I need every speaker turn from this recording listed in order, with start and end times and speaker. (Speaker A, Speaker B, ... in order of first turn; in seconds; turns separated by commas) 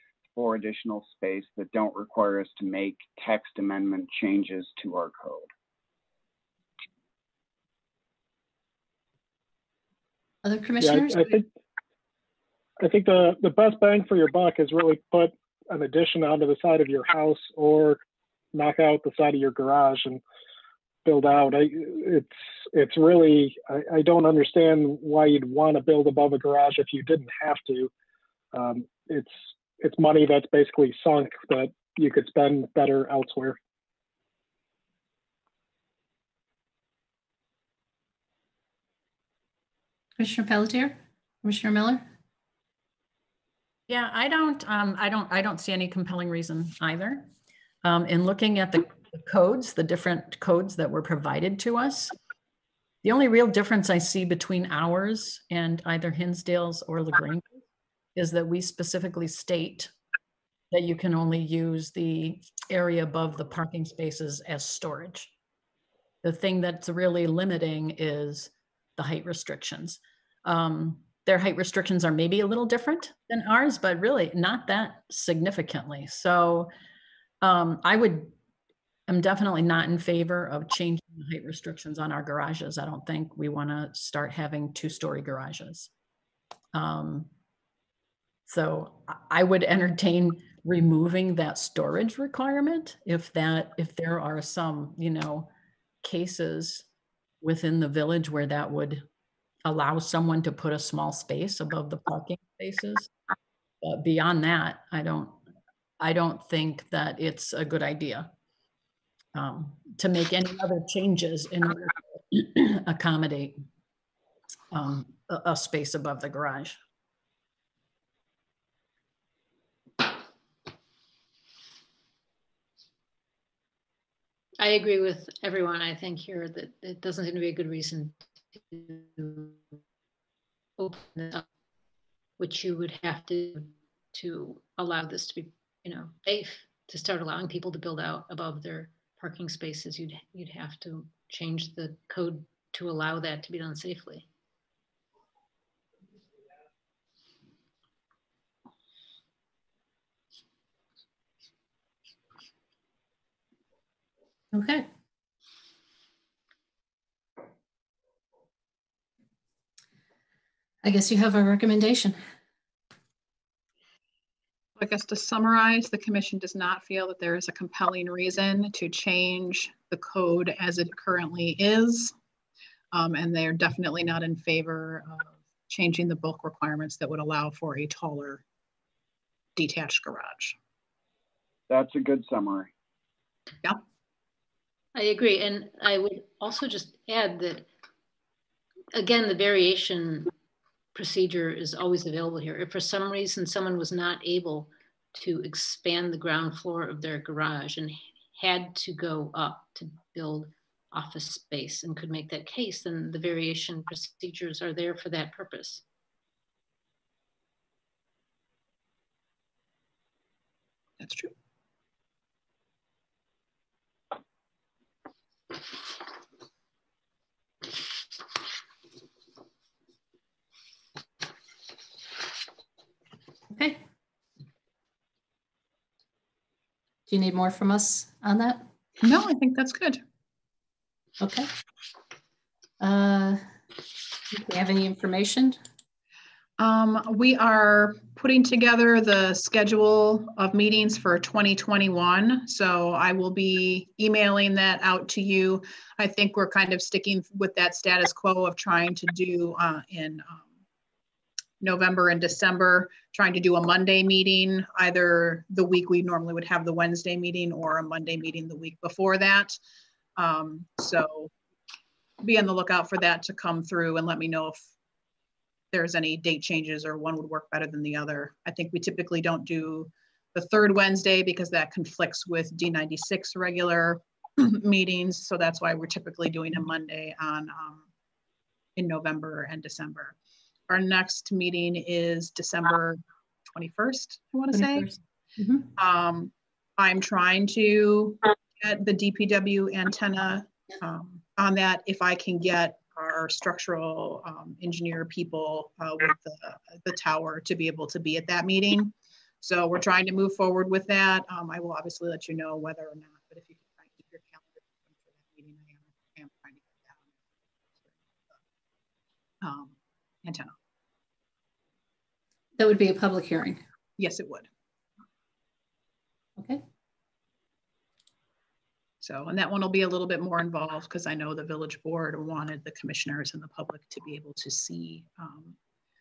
Speaker A: 0.3-5.5, Speaker B: 10.4-11.4, Speaker C: 10.8-11.4, Speaker C: 12.8-18.0, Speaker C: 18.5-20.2, Speaker C: 21.0-27.9, Speaker C: 28.5-33.6, Speaker B: 40.2-42.0, Speaker D: 43.9-47.3, Speaker D: 47.8-52.1, Speaker D: 53.0-57.5, Speaker D: 58.1-59.9, Speaker D: 60.7-65.3, Speaker D: 66.2-76.7, Speaker D: 77.4-78.3, Speaker D: 79.1-85.9, Speaker D: 86.7-87.3, Speaker D: 88.5-95.5, Speaker D: 96.0-96.8, Speaker D: 97.4-99.0, Speaker D: 99.6-103.1, Speaker D: 103.8-105.4, Speaker D: 106.0-108.3, Speaker D: 109.3-113.6, Speaker D: 114.7-116.8, Speaker E: 124.6-129.6, Speaker E: 130.8-131.4, Speaker E: 132.4-144.3, Speaker B: 154.5-154.8, Speaker B: 160.8-162.2, Speaker F: 164.8-172.1, Speaker F: 172.9-178.4, Speaker F: 179.6-180.6, Speaker A: 181.7-182.7, Speaker E: 184.9-187.7, Speaker E: 188.9-190.3, Speaker E: 190.9-205.8, Speaker F: 211.0-211.3, Speaker B: 223.5-223.8, Speaker B: 227.1-228.7, Speaker F: 229.0-230.0, Speaker B: 231.2-231.5, Speaker B: 232.8-233.4, Speaker B: 234.3-235.6, Speaker F: 236.6-250.4, Speaker F: 251.6-259.6, Speaker F: 260.2-261.3, Speaker F: 262.2-264.7, Speaker F: 265.7-277.8, Speaker F: 278.8-280.1, Speaker F: 280.7-284.9, Speaker B: 284.5-285.7, Speaker F: 285.8-307.1, Speaker F: 307.8-308.4, Speaker F: 309.4-310.5, Speaker B: 312.6-313.6, Speaker F: 314.0-314.5, Speaker F: 319.0-325.5